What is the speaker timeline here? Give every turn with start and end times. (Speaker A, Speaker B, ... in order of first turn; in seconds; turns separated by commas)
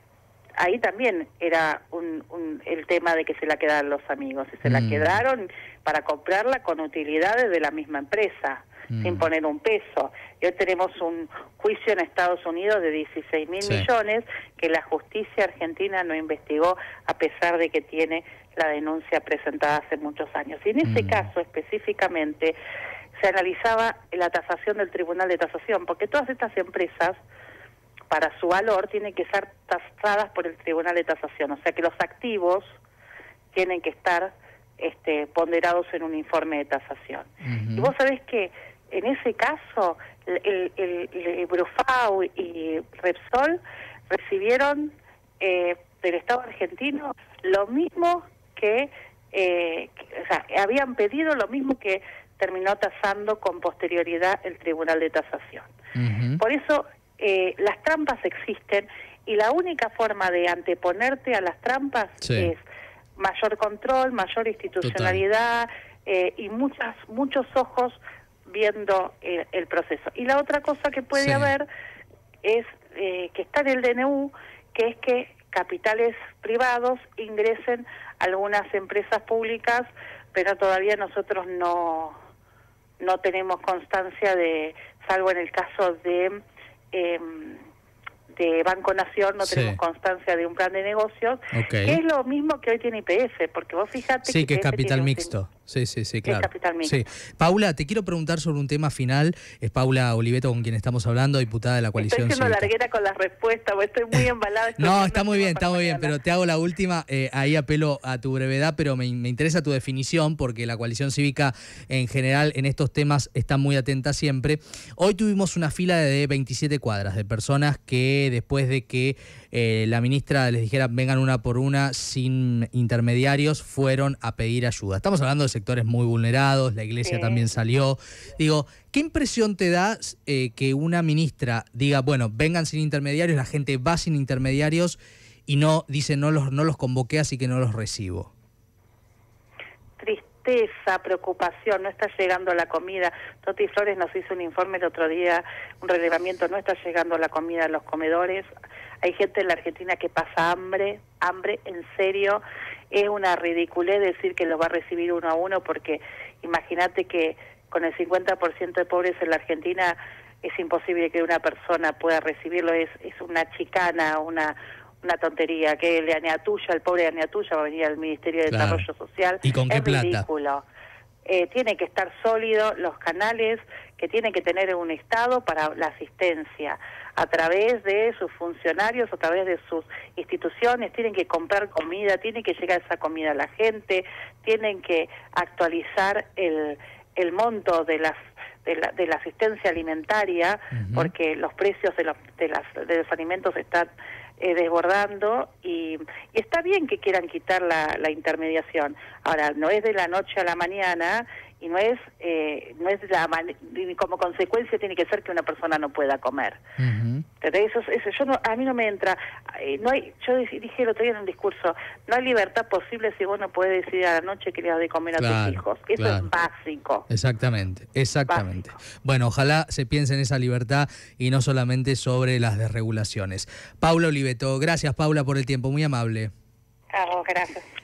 Speaker A: 0.6-22.6, Speaker B: 4.6-5.2, Speaker B: 8.9-9.3, Speaker B: 20.8-21.2, Speaker A: 23.2-27.2, Speaker A: 28.1-32.8, Speaker A: 33.5-43.6, Speaker B: 37.4-37.9, Speaker A: 44.1-55.7, Speaker B: 56.0-56.4, Speaker A: 56.4-62.6, Speaker B: 62.2-62.5, Speaker A: 63.2-71.7, Speaker B: 64.8-65.2, Speaker B: 71.1-71.5, Speaker A: 72.4-82.2, Speaker A: 83.0-86.4, Speaker A: 86.9-87.6, Speaker A: 88.3-95.3, Speaker B: 89.5-89.8, Speaker B: 91.5-92.0, Speaker B: 94.2-102.7, Speaker A: 96.2-97.0, Speaker A: 102.0-106.1, Speaker B: 104.8-138.3, Speaker A: 127.0-127.5, Speaker A: 140.0-148.5, Speaker A: 149.0-170.6, Speaker B: 168.5-168.8, Speaker B: 169.4-170.2, Speaker A: 171.2-206.6, Speaker B: 190.7-191.1, Speaker B: 206.8-207.2, Speaker A: 207.4-217.1, Speaker B: 215.2-216.3, Speaker B: 217.1-226.3, Speaker A: 226.9-227.6